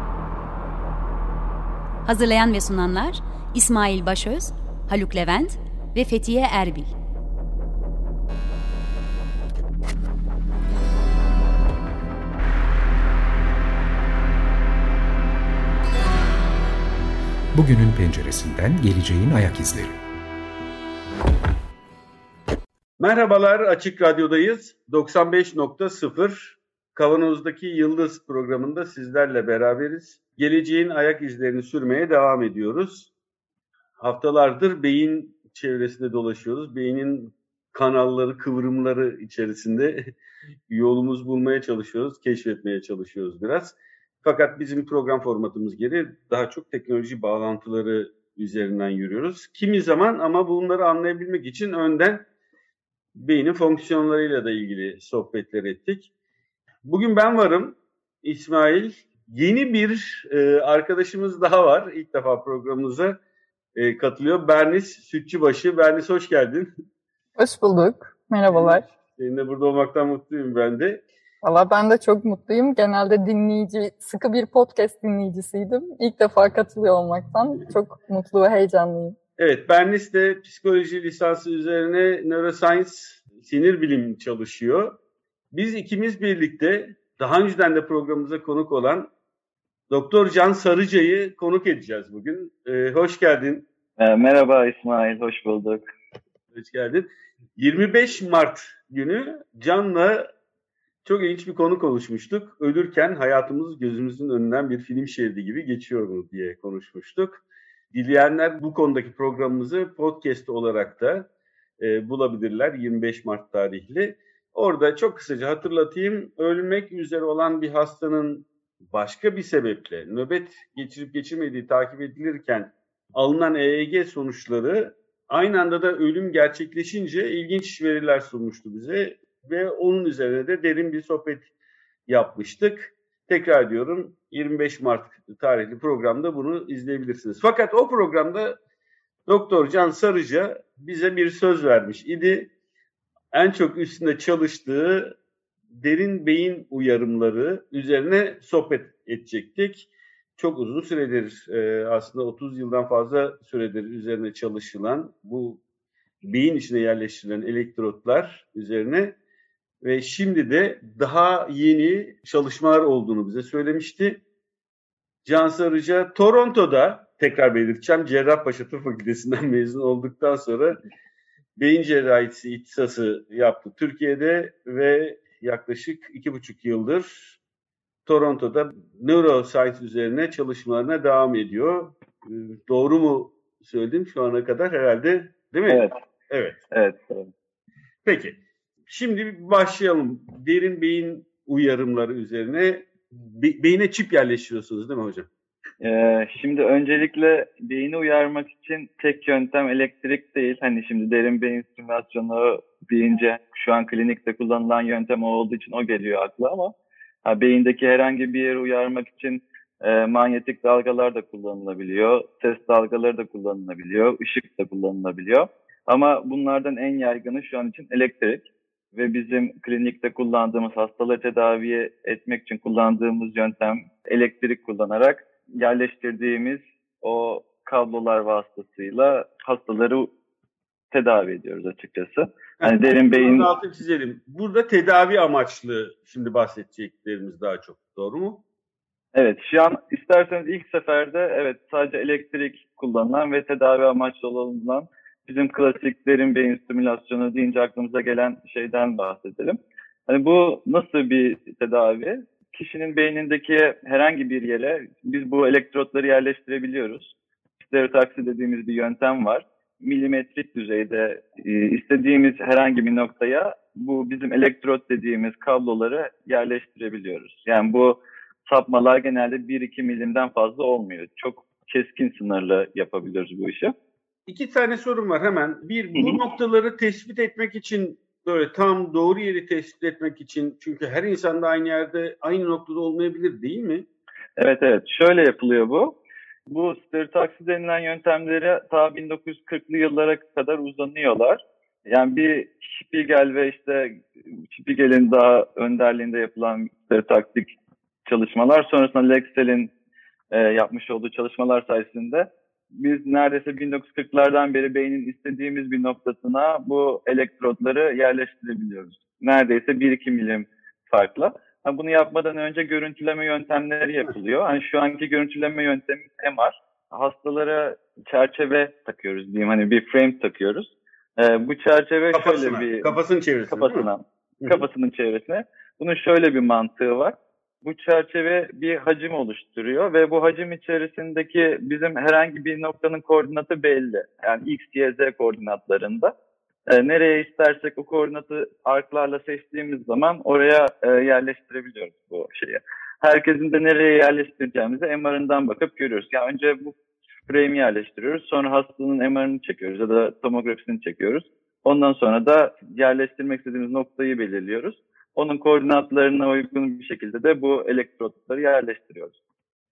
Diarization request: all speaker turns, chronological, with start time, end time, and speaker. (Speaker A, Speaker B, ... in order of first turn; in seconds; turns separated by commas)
Speaker A: 2.0-6.9, Speaker B: 17.5-20.0, Speaker C: 23.0-33.1, Speaker C: 34.0-40.1, Speaker C: 40.7-52.2, Speaker C: 53.1-56.1, Speaker C: 56.8-63.2, Speaker C: 63.7-66.7, Speaker D: 67.4-68.8, Speaker C: 68.5-71.0, Speaker D: 71.4-79.2, Speaker C: 79.4-85.0, Speaker C: 85.5-89.1, Speaker C: 89.9-93.7, Speaker E: 94.0-95.8, Speaker C: 96.5-100.3, Speaker C: 101.0-111.3, Speaker C: 111.8-131.5, Speaker C: 132.1-138.6, Speaker C: 139.3-142.5, Speaker C: 143.3-145.2, Speaker C: 145.7-155.6, Speaker C: 156.2-159.2, Speaker C: 159.8-164.2, Speaker C: 165.2-170.8, Speaker C: 171.6-177.4, Speaker C: 178.1-186.6, Speaker E: 185.7-185.9, Speaker E: 186.7-187.3, Speaker C: 188.0-195.3, Speaker E: 195.8-206.7, Speaker E: 207.2-230.1, Speaker E: 230.9-233.5, Speaker C: 232.6-238.4, Speaker E: 239.1-273.7, Speaker C: 274.3-283.9, Speaker E: 284.4-285.9, Speaker E: 286.5-297.5, Speaker E: 298.1-299.7, Speaker E: 300.3-323.0, Speaker C: 322.1-323.9, Speaker E: 323.5-336.1, Speaker E: 336.7-359.2